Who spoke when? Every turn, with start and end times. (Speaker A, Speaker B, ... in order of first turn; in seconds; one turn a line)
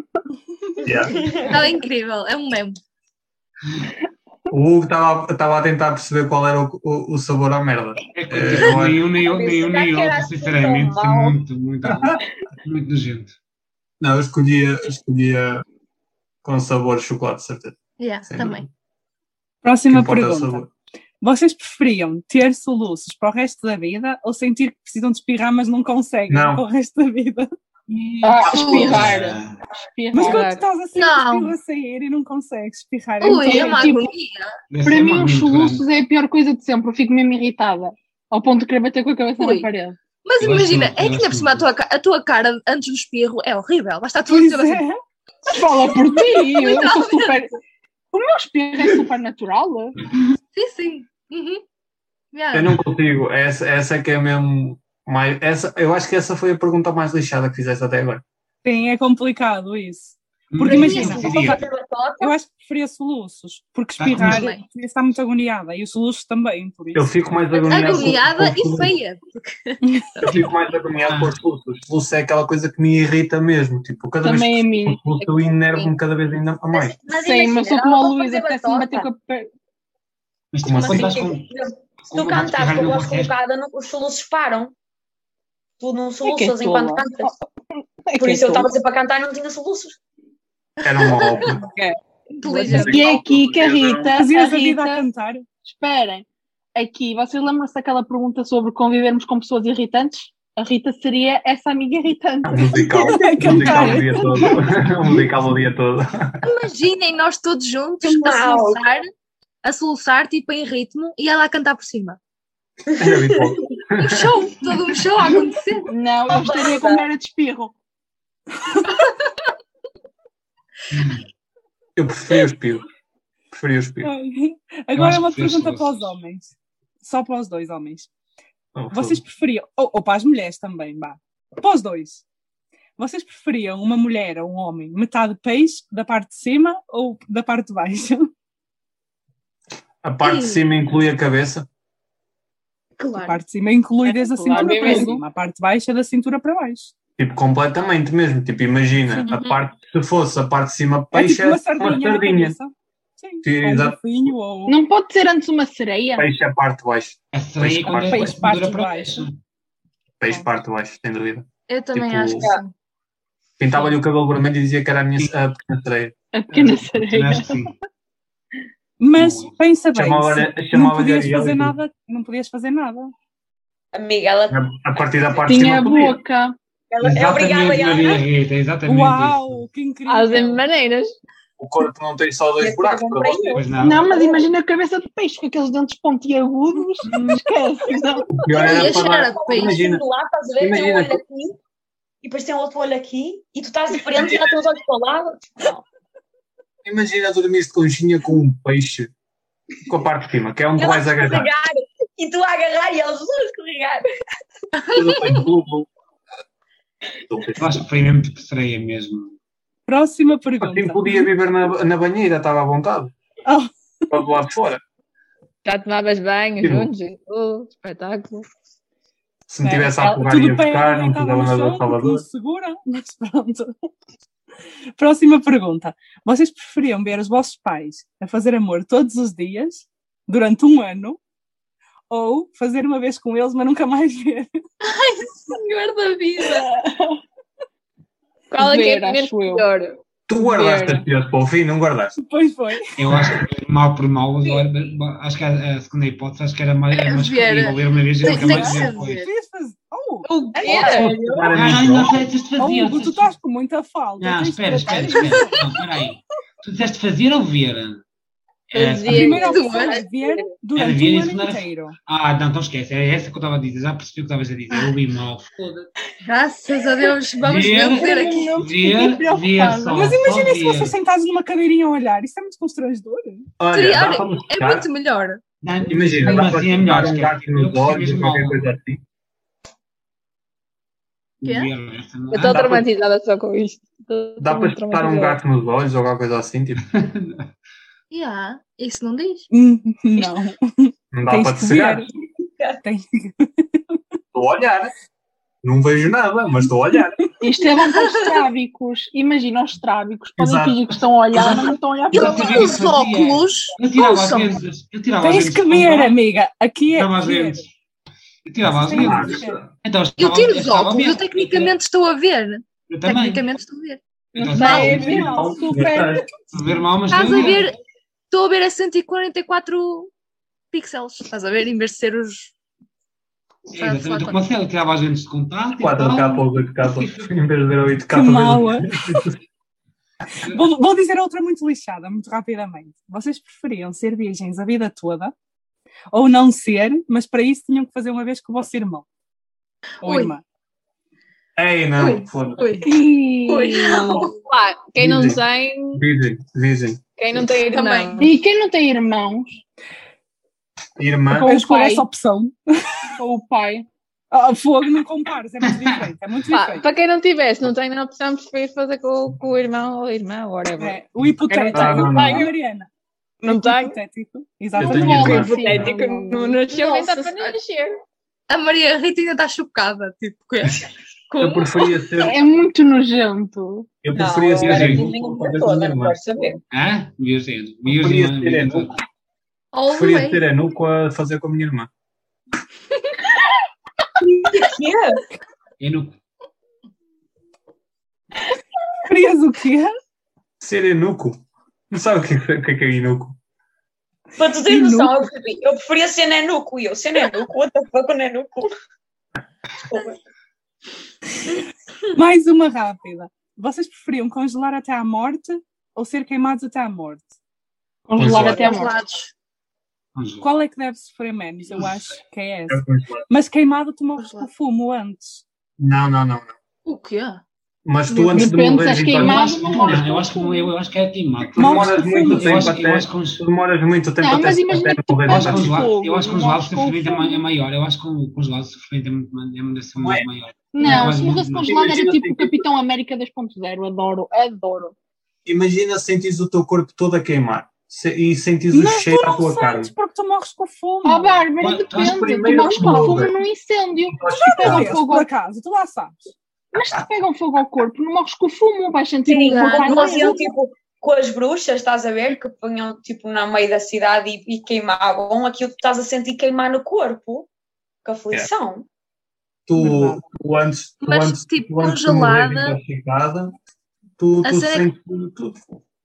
Speaker A: 0.8-1.3
Speaker B: 0.8-1.6
Speaker C: 1.4-2.8
Speaker A: 4.5-9.1
Speaker D: 8.1-13.3
Speaker B: 9.1-11.4
Speaker A: 11.9-12.2
Speaker A: 14.0-15.6
Speaker A: 16.4-18.6
Speaker C: 18.0-18.7
Speaker E: 19.6-20.6
Speaker A: 19.9-20.7
Speaker E: 21.2-27.5
Speaker A: 26.3-26.6
Speaker D: 27.9-29.6
Speaker F: 28.2-30.5
Speaker C: 28.4-29.1
Speaker E: 30.1-33.9
Speaker G: 30.2-30.6
Speaker C: 30.9-31.5
Speaker C: 33.2-34.5
Speaker F: 33.4-34.1
Speaker D: 34.7-35.9
Speaker F: 34.9-40.0
Speaker C: 39.4-39.7
Speaker C: 40.2-44.9
Speaker D: 40.4-41.7
Speaker E: 44.3-45.0
Speaker F: 45.5-47.5
Speaker C: 45.8-47.4
Speaker F: 48.1-50.0
Speaker C: 50.5-51.6
Speaker C: 52.3-52.8
Speaker A: 52.5-58.2
Speaker E: 58.6-61.6
Speaker D: 60.5-61.6
Speaker C: 60.7-61.3
Speaker B: 60.9-62.4
Speaker E: 62.2-67.0
Speaker D: 64.0-64.4
Speaker C: 64.2-64.6
Speaker A: 66.9-69.0
Speaker C: 67.6-69.8
Speaker B: 67.7-68.0
Speaker A: 70.2-77.0
Speaker D: 70.3-70.5
Speaker D: 71.1-71.3
Speaker F: 74.2-75.0
Speaker G: 75.2-75.9
Speaker B: 76.7-79.1
Speaker F: 77.1-79.5
Speaker D: 80.5-81.5
Speaker A: 80.6-81.1
Speaker B: 80.8-84.7
Speaker D: 82.0-83.4
Speaker B: 85.8-87.3
Speaker F: 86.2-87.4
Speaker F: 88.1-88.7
Speaker B: 88.2-90.0
Speaker A: 90.8-91.7
Speaker C: 90.8-91.5
Speaker G: 91.6-92.9
Speaker C: 92.4-93.0
Speaker A: 92.7-94.1
Speaker F: 92.8-95.0
Speaker E: 94.2-95.5
Speaker F: 95.7-105.2
Speaker A: 102.5-106.4
Speaker E: 103.0-104.3
Speaker C: 106.4-109.1
Speaker B: 108.0-108.9
Speaker C: 109.6-112.2
Speaker B: 112.9-113.6
Speaker A: 113.0-114.3
Speaker C: 113.9-115.9
Speaker F: 115.9-117.7
Speaker B: 116.3-117.1
Speaker D: 120.9-121.2
Speaker A: 122.0-122.8
Speaker A: 123.5-124.1
Speaker E: 124.0-128.1
Speaker D: 125.0-126.2
Speaker A: 128.8-129.2
Speaker E: 128.9-132.2
Speaker E: 133.0-138.3
Speaker A: 140.0-141.7
Speaker C: 140.2-140.7
Speaker C: 143.0-143.4
Speaker E: 143.2-146.9
Speaker F: 144.1-145.2
Speaker G: 144.5-145.0
Speaker C: 144.8-145.1
Speaker A: 147.2-152.6
Speaker E: 151.1-154.8
Speaker A: 153.4-154.0
Speaker F: 154.7-156.3
Speaker A: 156.2-158.3
Speaker D: 157.3-159.4
Speaker E: 158.1-159.3
Speaker A: 160.2-162.5
Speaker C: 161.7-162.7
Speaker A: 163.6-166.8
Speaker F: 166.3-167.6
Speaker D: 166.9-167.7
Speaker E: 169.0-173.1
Speaker D: 169.2-169.5
Speaker A: 169.9-171.8
Speaker B: 173.9-174.7
Speaker A: 174.5-176.2
Speaker F: 175.5-176.6
Speaker B: 176.9-178.2
Speaker D: 177.0-179.6
Speaker E: 178.9-180.6
Speaker G: 180.1-181.2
Speaker A: 181.6-183.6
Speaker B: 182.6-183.8
Speaker D: 183.5-184.1
Speaker F: 183.8-188.4
Speaker D: 187.1-187.4
Speaker A: 188.4-190.0
Speaker B: 188.5-191.6
Speaker C: 188.6-189.9
Speaker A: 190.6-191.2
Speaker B: 192.2-195.8
Speaker A: 194.2-194.5
Speaker A: 196.8-199.1
Speaker A: 199.9-201.5
Speaker B: 200.8-204.1
Speaker C: 204.8-205.5
Speaker A: 204.9-205.9
Speaker A: 207.3-207.8
Speaker D: 207.6-209.3
Speaker E: 209.9-211.2
Speaker A: 210.6-213.1
Speaker E: 213.5-214.2
Speaker A: 214.1-214.8
Speaker G: 215.7-218.5
Speaker A: 216.6-216.9
Speaker A: 219.5-222.2
Speaker E: 219.6-223.7
Speaker E: 225.0-231.2
Speaker E: 232.1-234.5
Speaker C: 234.9-236.6
Speaker G: 235.5-236.7
Speaker F: 236.7-237.2
Speaker G: 238.5-241.1
Speaker F: 238.6-239.7
Speaker A: 240.3-242.2
Speaker E: 242.2-242.8
Speaker D: 243.0-249.2
Speaker A: 243.1-243.4
Speaker C: 246.9-249.3
Speaker E: 248.4-248.7
Speaker E: 249.2-251.0
Speaker G: 250.3-251.7
Speaker B: 250.6-251.2
Speaker A: 250.7-252.2
Speaker D: 251.5-253.3
Speaker E: 252.6-255.6
Speaker D: 254.2-258.0
Speaker D: 258.7-259.4
Speaker G: 258.7-260.5
Speaker E: 259.1-262.0
Speaker C: 259.3-260.0
Speaker D: 260.8-265.9
Speaker C: 266.2-268.6
Speaker F: 266.9-270.2
Speaker D: 267.4-270.9
Speaker E: 269.9-273.5
Speaker A: 273.6-274.9
Speaker C: 273.7-275.4
Speaker D: 275.6-278.7
Speaker A: 275.9-279.0
Speaker D: 281.4-282.8
Speaker C: 281.4-281.7
Speaker G: 282.3-285.4
Speaker A: 282.5-282.8
Speaker A: 284.4-286.9
Speaker D: 286.9-287.5
Speaker C: 288.1-289.5
Speaker E: 289.5-292.1
Speaker A: 291.1-292.1
Speaker E: 292.8-294.0
Speaker A: 294.3-294.9
Speaker A: 295.6-297.2
Speaker F: 297.4-302.8
Speaker C: 297.7-298.4
Speaker A: 300.4-300.8
Speaker D: 301.3-306.2
Speaker C: 302.1-304.6
Speaker E: 305.2-307.6
Speaker D: 306.9-307.7
Speaker D: 308.4-311.8
Speaker E: 308.7-309.6
Speaker A: 308.9-309.7
Speaker C: 310.2-314.0
Speaker D: 312.9-313.5
Speaker D: 314.4-315.4
Speaker F: 314.4-316.1
Speaker C: 314.5-315.3
Speaker E: 314.6-316.3
Speaker A: 315.3-316.2
Speaker D: 316.5-317.7
Speaker C: 317.1-317.8
Speaker C: 318.3-320.1
Speaker C: 320.7-322.5
Speaker C: 323.7-324.4
Speaker D: 323.7-327.4
Speaker A: 325.8-329.4
Speaker E: 328.1-329.2
Speaker E: 330.4-335.3
Speaker E: 336.1-339.1
Speaker E: 340.0-340.4
Speaker C: 340.0-340.3
Speaker A: 341.6-342.7
Speaker C: 342.0-342.9
Speaker F: 342.8-344.3
Speaker C: 343.5-344.3
Speaker G: 344.1-346.0
Speaker A: 345.0-345.4
Speaker A: 345.9-347.4
Speaker G: 347.2-348.4
Speaker C: 347.9-348.1
Speaker F: 348.2-349.6
Speaker A: 351.0-351.6
Speaker F: 351.3-352.1
Speaker E: 351.5-352.6
Speaker F: 353.2-353.9
Speaker E: 354.3-356.9
Speaker G: 356.5-361.0
Speaker E: 360.8-362.9
Speaker G: 361.5-362.5
Speaker A: 361.7-362.5
Speaker G: 363.4-364.0
Speaker E: 363.5-365.5
Speaker A: 364.8-365.9
Speaker F: 364.8-366.6
Speaker G: 365.0-368.0
Speaker B: 366.8-367.6
Speaker C: 368.5-370.9
Speaker G: 371.3-372.2
Speaker A: 371.4-372.4
Speaker F: 372.2-373.9
Speaker A: 374.0-376.2
Speaker B: 374.1-376.6
Speaker D: 374.6-375.1
Speaker D: 376.7-379.0
Speaker A: 377.9-379.0
Speaker C: 379.7-380.5
Speaker A: 379.9-381.9
Speaker B: 384.2-385.2
Speaker D: 385.8-386.2
Speaker E: 389.1-389.9
Speaker A: 390.6-393.4
Speaker B: 394.4-398.7
Speaker E: 394.6-395.2
Speaker B: 399.9-400.2
Speaker E: 402.1-407.3
Speaker F: 408.1-408.9
Speaker A: 408.2-408.7
Speaker C: 408.3-409.3
Speaker D: 410.2-410.5
Speaker E: 410.4-415.4
Speaker A: 412.7-413.2
Speaker C: 414.2-414.5
Speaker A: 415.8-416.6
Speaker C: 416.9-417.4
Speaker A: 417.9-420.0
Speaker C: 418.1-418.7
Speaker F: 418.3-420.7
Speaker D: 419.1-423.4
Speaker A: 421.6-425.9
Speaker E: 421.6-422.7
Speaker F: 424.2-427.4
Speaker D: 425.3-432.0
Speaker A: 430.0-430.2
Speaker F: 430.7-434.9
Speaker A: 431.6-432.6
Speaker A: 435.4-439.9
Speaker E: 438.7-441.5
Speaker F: 441.1-445.3
Speaker D: 441.6-443.2
Speaker A: 441.9-443.4
Speaker A: 444.1-445.0
Speaker E: 444.3-446.3
Speaker F: 446.7-450.4
Speaker B: 449.3-457.5
Speaker C: 449.4-450.4
Speaker B: 458.1-458.9
Speaker A: 459.7-463.6
Speaker E: 459.8-460.2
Speaker C: 461.0-462.8
Speaker A: 464.2-465.8
Speaker C: 464.4-464.9